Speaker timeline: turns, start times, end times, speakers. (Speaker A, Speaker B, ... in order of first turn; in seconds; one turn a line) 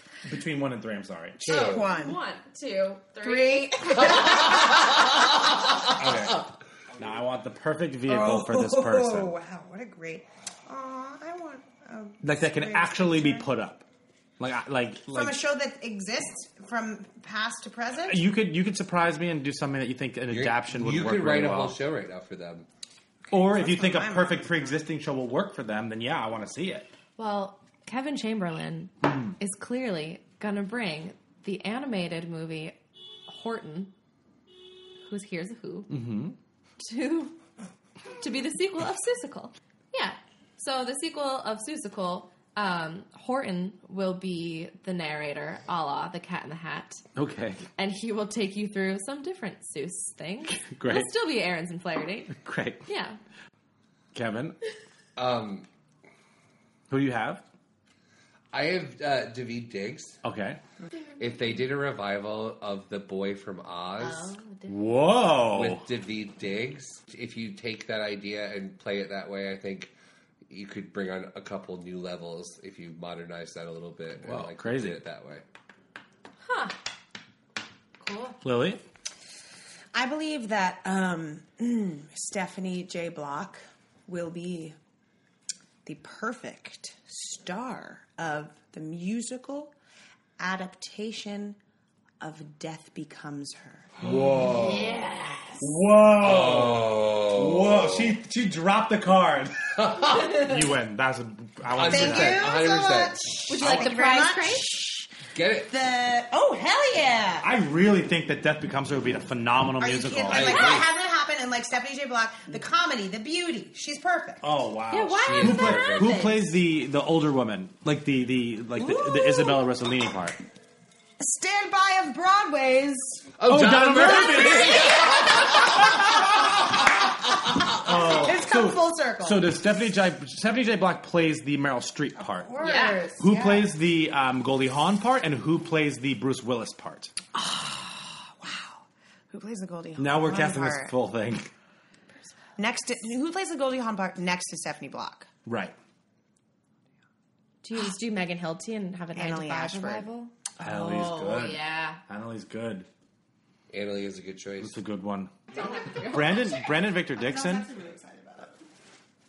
Speaker A: 0.3-1.4
Speaker B: 1.4-1.9
Speaker C: 1.4-4.5
Speaker D: 1.5-2.2
Speaker D: 3.2-4.6
Speaker A: 6.0-6.4
Speaker A: 7.0-9.3
Speaker D: 8.1-13.5
Speaker A: 12.2-13.8
Speaker A: 14.4-15.4
Speaker D: 15.1-18.2
Speaker A: 18.1-21.8
Speaker B: 20.3-22.6
Speaker A: 23.3-26.9
Speaker D: 23.3-24.7
Speaker C: 27.2-32.8
Speaker C: 33.3-33.9
Speaker C: 35.0-36.0
Speaker A: 35.9-36.4
Speaker C: 36.8-37.4
Speaker C: 38.2-47.0
Speaker A: 47.1-47.6
Speaker C: 47.8-53.2
Speaker A: 50.5-51.1
Speaker A: 52.3-52.8
Speaker A: 54.1-54.6
Speaker B: 55.1-55.6
Speaker A: 56.9-57.4
Speaker B: 58.5-60.2
Speaker A: 60.2-60.6
Speaker B: 61.2-64.4
Speaker C: 64.0-64.7
Speaker A: 64.7-65.8
Speaker B: 65.5-69.9
Speaker B: 70.5-75.4
Speaker A: 74.2-75.0
Speaker C: 76.4-76.8
Speaker C: 78.0-78.4
Speaker A: 78.4-78.8
Speaker D: 79.9-84.8
Speaker D: 85.8-89.7
Speaker D: 90.4-91.6
Speaker D: 92.2-93.9
Speaker A: 94.0-95.0
Speaker C: 94.5-95.6
Speaker A: 95.6-102.6
Speaker B: 96.2-98.2
Speaker B: 99.8-100.4
Speaker B: 101.7-103.8
Speaker D: 101.8-107.5
Speaker C: 103.5-104.8
Speaker B: 105.3-105.7
Speaker A: 107.4-110.7
Speaker D: 109.8-114.5
Speaker B: 110.3-110.8
Speaker A: 114.4-120.4
Speaker C: 114.9-116.5
Speaker B: 115.2-116.4
Speaker C: 118.8-119.6
Speaker D: 121.2-123.3
Speaker B: 123.4-125.8
Speaker A: 123.5-125.0
Speaker C: 124.3-125.2
Speaker D: 124.4-124.8
Speaker A: 127.7-132.6
Speaker D: 128.2-129.5
Speaker D: 132.4-133.7
Speaker C: 132.6-133.1
Speaker A: 133.2-137.1
Speaker D: 137.3-141.0
Speaker A: 140.0-141.5
Speaker D: 142.6-145.3
Speaker A: 145.4-145.7
Speaker C: 147.6-152.0
Speaker D: 149.1-150.1
Speaker A: 150.6-152.9
Speaker B: 153.7-154.8
Speaker A: 154.6-155.3
Speaker C: 155.5-156.6
Speaker A: 156.0-157.7
Speaker D: 157.1-158.5